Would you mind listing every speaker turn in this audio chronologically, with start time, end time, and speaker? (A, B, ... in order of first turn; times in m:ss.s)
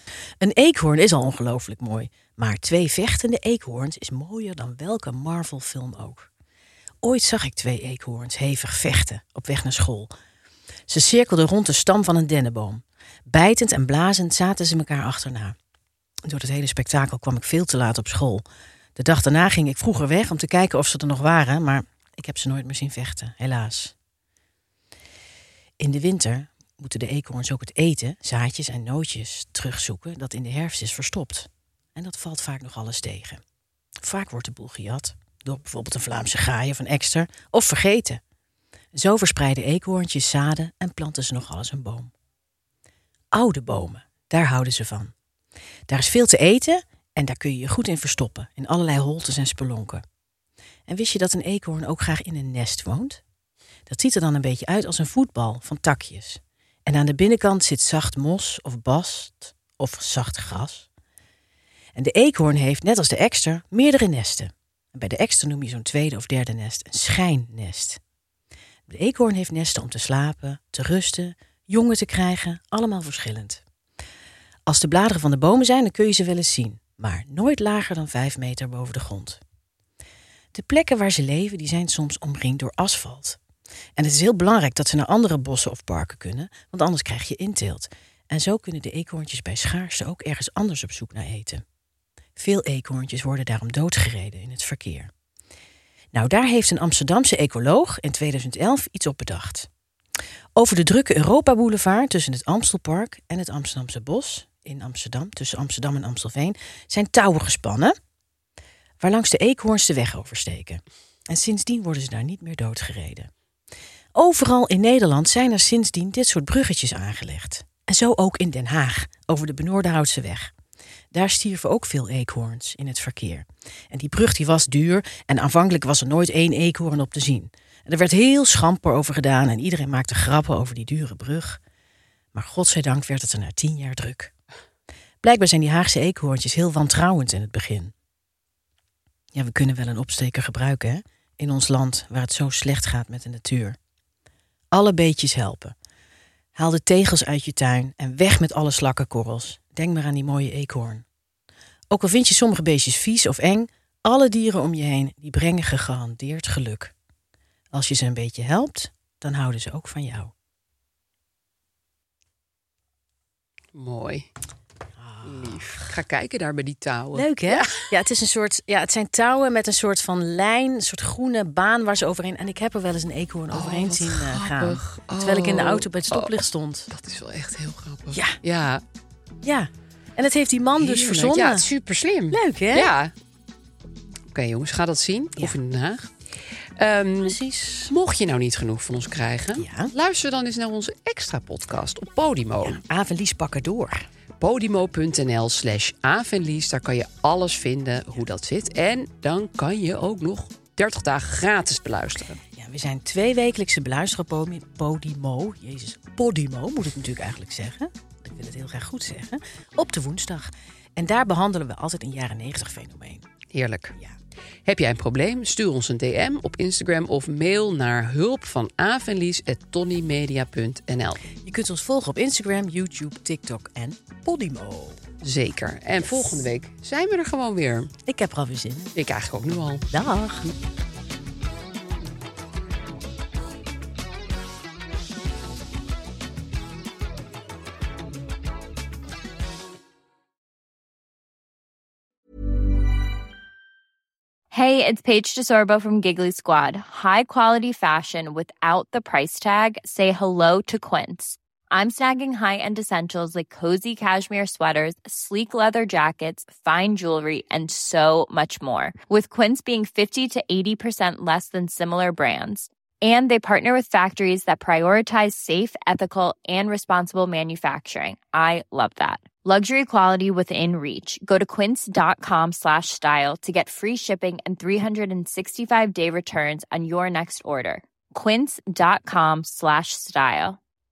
0:00.4-0:06.3 A
0:07.0-0:10.1 A
0:10.9-0:15.6 A
0:16.3-0:18.4 A
0:19.0-0:23.9 A
0:25.8-0:33.4 A
0:34.0-0:38.2 A
0:38.9-0:42.1 A
0:43.3-0:45.1 A
0:45.9-0:50.0 A
0:50.9-0:53.2 A
0:53.9-1:00.9 A
1:02.0-1:08.0 A
1:08.9-1:13.6 A
1:14.7-1:19.4 A
1:20.5-1:23.4 A
1:24.0-1:31.6 A
1:32.4-1:35.1 A
1:36.1-1:39.7 A
1:40.6-1:48.0 A
1:49.0-1:53.3 A
1:54.2-2:00.5 A
2:01.1-2:11.6 A
2:12.3-2:14.3 A
2:15.2-2:17.9 A
2:19.3-2:23.8 A
2:24.7-2:25.8 A
2:26.6-2:31.0 A
2:31.9-2:36.9 A
2:37.7-2:40.3 A
2:43.7-2:44.3 B
2:45.0-2:45.9 A
2:45.2-2:47.8 B
2:47.1-2:56.9 A
2:53.5-2:56.3 B
2:56.9-2:58.8 B
2:58.1-2:58.4 A
2:59.4-3:01.7 A
3:00.8-3:03.1 B
3:02.3-3:02.9 A
3:04.3-3:06.1 B
3:06.8-3:12.8 B
3:07.2-3:07.9 A
3:09.6-3:09.9 A
3:12.6-3:14.1 A
3:14.4-3:22.4 B
3:22.6-3:33.3 A
3:33.5-3:33.9 B
3:34.6-3:41.2 B
3:41.4-3:45.0 A
3:45.2-3:47.9 B
3:48.1-3:49.0 A
3:49.0-3:49.8 B
3:49.9-3:50.5 A
4:04.5-4:40.6 C